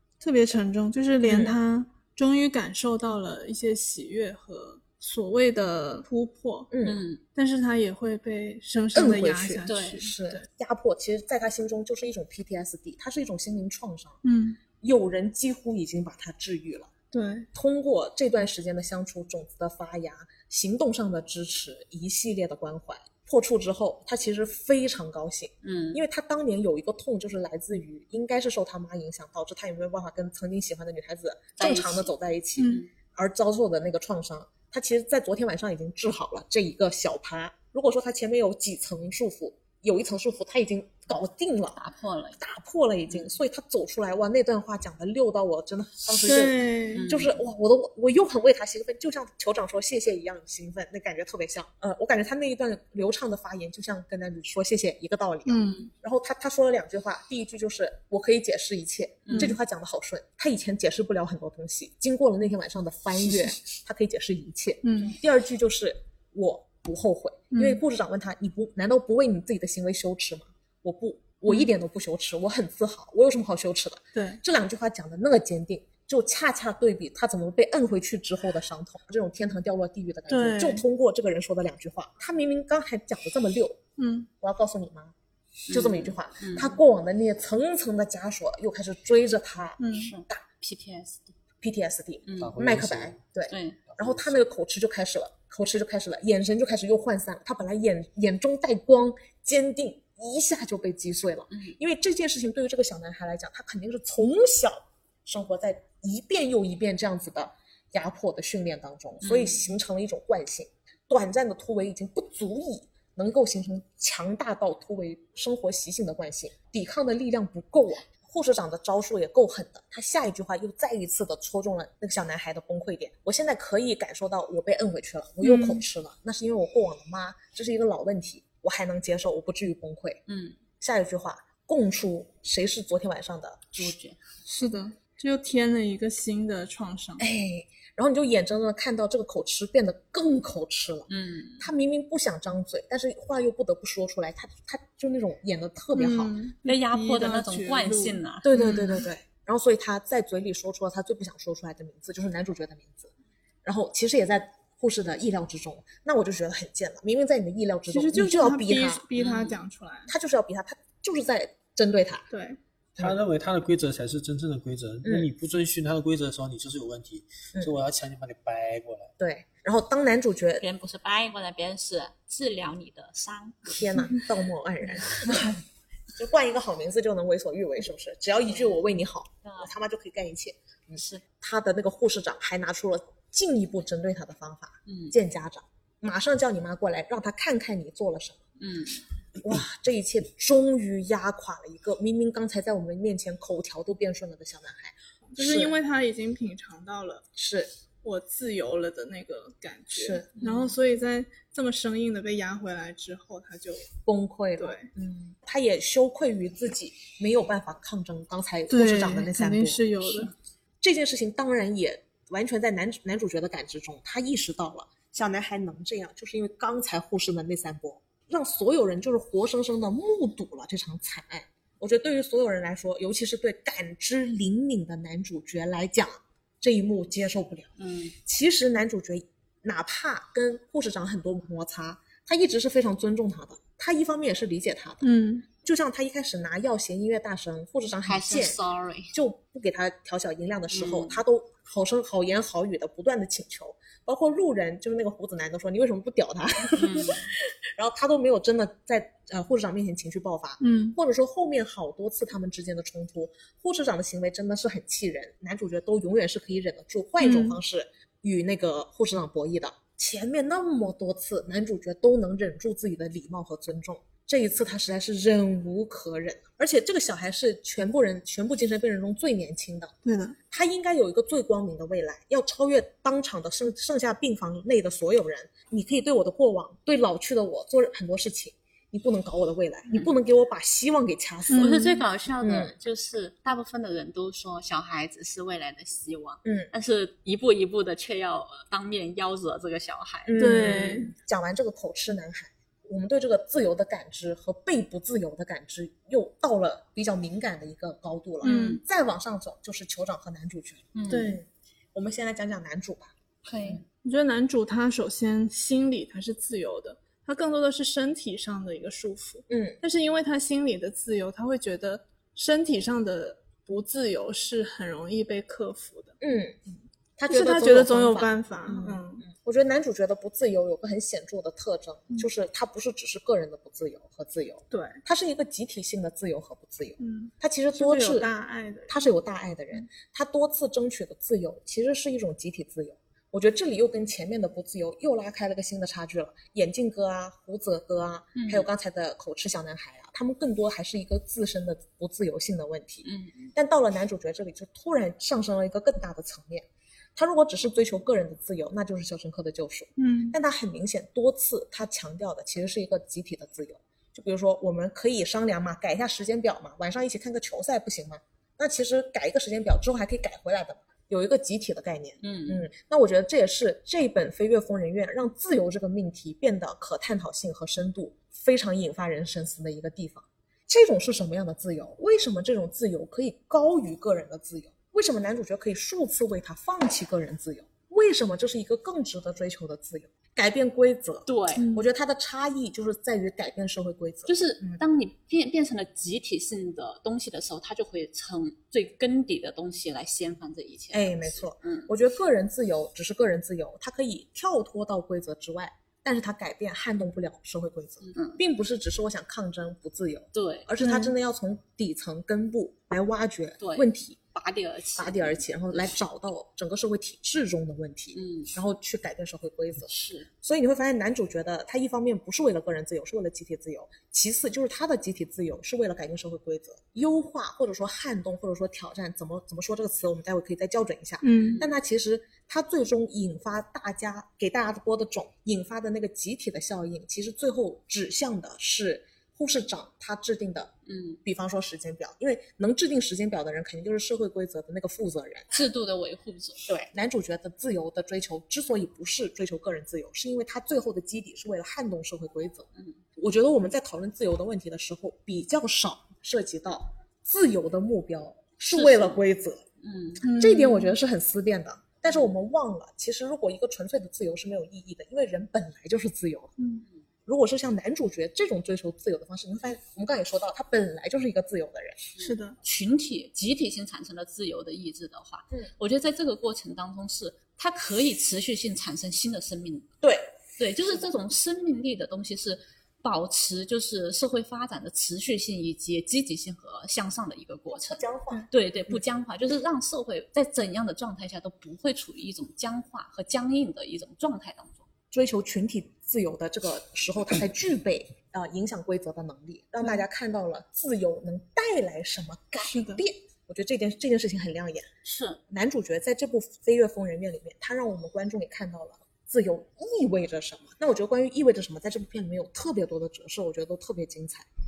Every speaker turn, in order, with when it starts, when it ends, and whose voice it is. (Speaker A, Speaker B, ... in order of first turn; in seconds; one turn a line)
Speaker A: 0.2-6.7
Speaker B: 1.2-1.6
Speaker B: 6.7-7.0
Speaker C: 6.8-7.2
Speaker A: 7.3-10.5
Speaker B: 8.9-14.2
Speaker C: 9.7-10.0
Speaker A: 14.2-14.6
Speaker B: 14.8-16.9
Speaker A: 17.1-17.5
Speaker B: 17.5-41.8
Speaker C: 25.6-26.0
Speaker C: 31.6-32.1
Speaker A: 32.6-32.8
Speaker C: 32.6-32.9
Speaker C: 41.8-42.4
Speaker B: 42.4-83.8
Speaker A: 46.2-47.1
Speaker C: 47.0-47.4
Speaker A: 55.5-55.9
Speaker C: 59.3-59.5
Speaker A: 64.8-65.2
Speaker A: 67.5-67.8
Speaker A: 74.2-74.4
Speaker A: 80.3-80.8
Speaker A: 84.0-84.3
Speaker B: 84.4-85.1
Speaker C: 85.7-86.8
Speaker B: 85.7-90.4
Speaker A: 89.8-90.1
Speaker C: 89.9-91.3
Speaker B: 91.6-130.2
Speaker C: 92.3-92.5
Speaker D: 92.4-93.2
Speaker C: 93.5-93.8
Speaker D: 93.9-94.4
Speaker C: 101.5-101.8
Speaker C: 109.2-109.7
Speaker A: 125.4-125.8
Speaker C: 130.3-130.6
Speaker B: 130.8-133.9
Speaker C: 133.8-134.2
Speaker A: 134.5-137.2
Speaker B: 137.2-146.3
Speaker C: 141.1-141.7
Speaker A: 146.0-149.1
Speaker C: 146.6-148.5
Speaker B: 148.4-153.1
Speaker B: 153.6-159.0
Speaker A: 157.9-160.1
Speaker C: 159.2-159.6
Speaker B: 160.1-162.3
Speaker A: 162.3-162.6
Speaker D: 163.0-169.1
Speaker B: 165.0-165.3
Speaker B: 169.2-170.7
Speaker C: 170.6-173.8
Speaker B: 173.7-175.6
Speaker B: 176.1-188.4
Speaker C: 179.4-179.7
Speaker C: 181.0-181.2
Speaker C: 184.9-185.2
Speaker C: 188.6-189.0
Speaker B: 189.4-195.7
Speaker A: 195.3-197.3
Speaker B: 197.4-197.7
Speaker A: 198.0-203.9
Speaker B: 199.9-200.7
Speaker B: 204.1-210.3
Speaker A: 204.6-204.9
Speaker A: 208.7-210.3
Speaker B: 210.8-238.6
Speaker C: 227.8-228.2
Speaker A: 235.0-235.5
Speaker C: 238.1-239.2
Speaker B: 239.1-269.9
Speaker C: 240.7-241.2
Speaker C: 246.8-247.3
Speaker A: 250.6-251.0
Speaker A: 257.2-257.6
Speaker A: 270.1-270.4
Speaker B: 270.5-281.8
Speaker A: 281.5-282.0
Speaker C: 281.6-291.1
Speaker B: 282.4-282.7
Speaker B: 286.4-286.7
Speaker B: 290.3-303.1
Speaker A: 290.4-291.1
Speaker C: 298.4-298.8
Speaker A: 298.4-298.8
Speaker C: 300.9-301.4
Speaker A: 301.1-301.4
Speaker C: 303.4-303.8
Speaker A: 304.0-316.2
Speaker B: 309.5-309.8
Speaker B: 316.2-316.6
Speaker B: 317.2-328.3
Speaker A: 317.3-319.3
Speaker A: 324.7-325.0
Speaker A: 327.0-329.1
Speaker B: 328.9-384.8
Speaker C: 338.4-338.7
Speaker C: 343.0-343.5
Speaker A: 350.0-350.4
Speaker C: 362.2-362.7
Speaker C: 381.3-381.6
Speaker A: 381.6-381.9
Speaker C: 384.3-391.9
Speaker B: 390.9-404.2
Speaker C: 398.0-398.4
Speaker C: 400.3-400.7
Speaker A: 400.8-401.1
Speaker C: 403.6-405.9
Speaker B: 405.0-409.9
Speaker C: 408.1-408.5
Speaker C: 409.9-410.3
Speaker B: 410.4-430.7
Speaker A: 421.2-421.6
Speaker C: 421.4-421.7
Speaker C: 430.9-431.2
Speaker B: 431.2-435.5
Speaker C: 435.5-436.7
Speaker B: 436.6-449.6
Speaker C: 448.7-449.2
Speaker C: 449.8-450.2
Speaker A: 450.2-450.9
Speaker B: 450.4-456.5
Speaker A: 456.6-456.8
Speaker B: 457.3-462.1
Speaker C: 462.2-469.9
Speaker A: 462.2-462.6
Speaker B: 470.0-470.4
Speaker C: 470.6-484.9
Speaker B: 477.8-479.0
Speaker B: 485.1-494.9
Speaker A: 492.6-493.0
Speaker C: 495.0-495.4
Speaker B: 495.5-504.5